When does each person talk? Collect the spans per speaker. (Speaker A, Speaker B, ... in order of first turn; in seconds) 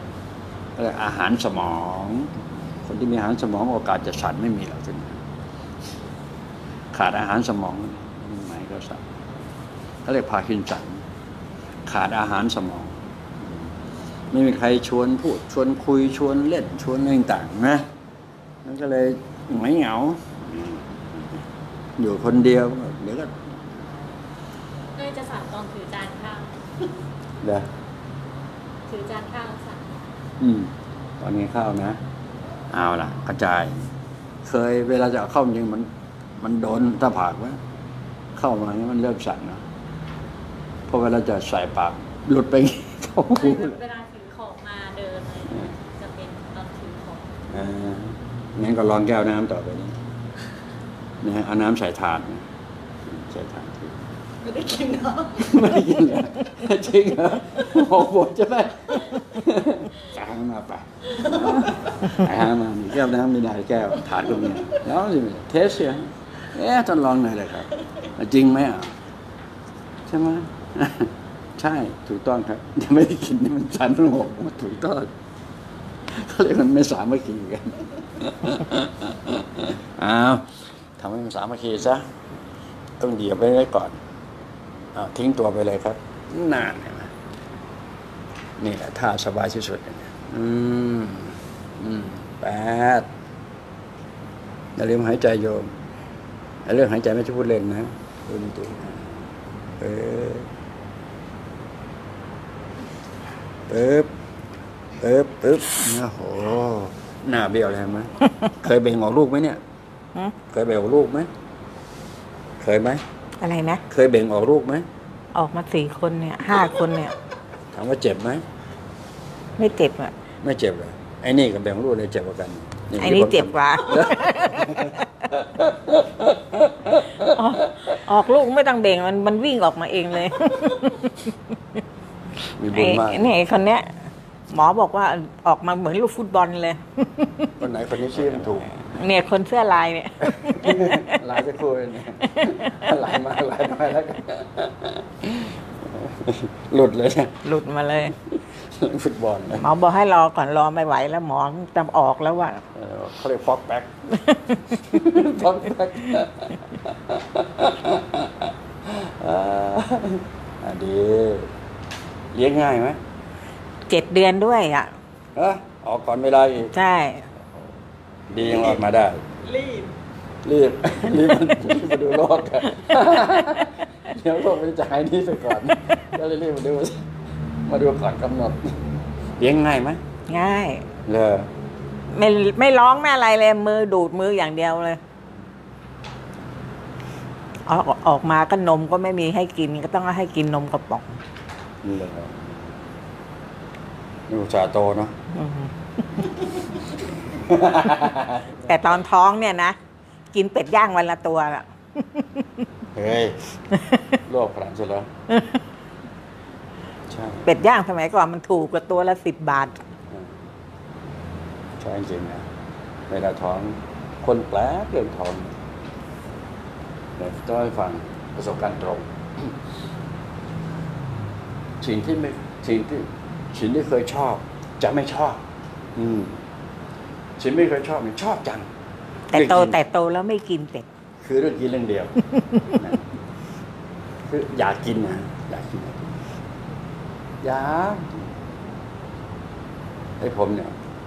Speaker A: 0.8-5.2, 6.9-9.0, 10.0-11.0, 11.9-13.7, 14.3-17.9, 18.6-21.4, 22.0-23.6, 27.4-27.6, 30.4-32.0, 32.7-33.8, 34.4-37.6, 38.4-39.6, 40.9-43.8, 47.5-50.0, 51.2-52.4, 53.0-53.9, 55.4-68.9, 70.1-75.1, 76.1-82.1, 83.0-84.0, 84.9-87.1, 88.6-93.1, 94.8-95.8, 96.6-99.1, 99.8-100.5, 103.7-104.1, 105.0-109.6, 110.5-111.3, 112.6-113.0, 113.9-114.8, 117.7-118.4, 120.4-128.0, 132.6-133.3, 137.6-138.7, 140.2-147.5, 148.1-149.7, 152.7-161.5, 162.3-163.0, 165.3-166.7, 168.3-169.2, 170.4-177.0, 177.7-178.8, 179.4-180.0, 181.1-181.5, 191.8-192.5, 194.3-195.1, 197.3-198.7, 202.9-203.6, 204.1-205.1, 207.1-207.5, 211.8-212.5, 213.1-215.6, 217.2-219.5, 221.8-225.4, 225.9-226.4, 227.4-228.7, 229.3-229.8, 231.2-232.2, 232.7-233.1, 234.2-236.3, 237.4-238.3, 240.2-240.7
Speaker B: 24.9-26.6, 28.9-30.0, 43.3-47.3
Speaker C: 54.4-55.7, 168.4-168.8, 169.4-169.9
Speaker D: 113.4-113.8, 115.3-117.1, 119.6-120.1, 123.0-125.0, 127.2-131.4, 132.7-133.9, 134.5-137.5, 138.9-141.2, 142.3-142.9, 147.4-148.1, 149.6-152.6, 154.3-155.0, 163.9-164.9, 166.7-167.2, 180.3-180.8, 182.1-185.0, 187.7-191.2, 195.3-196.2, 198.6-199.8, 200.3-202.7, 205.3-205.6, 207.4-209.8, 229.3-230.9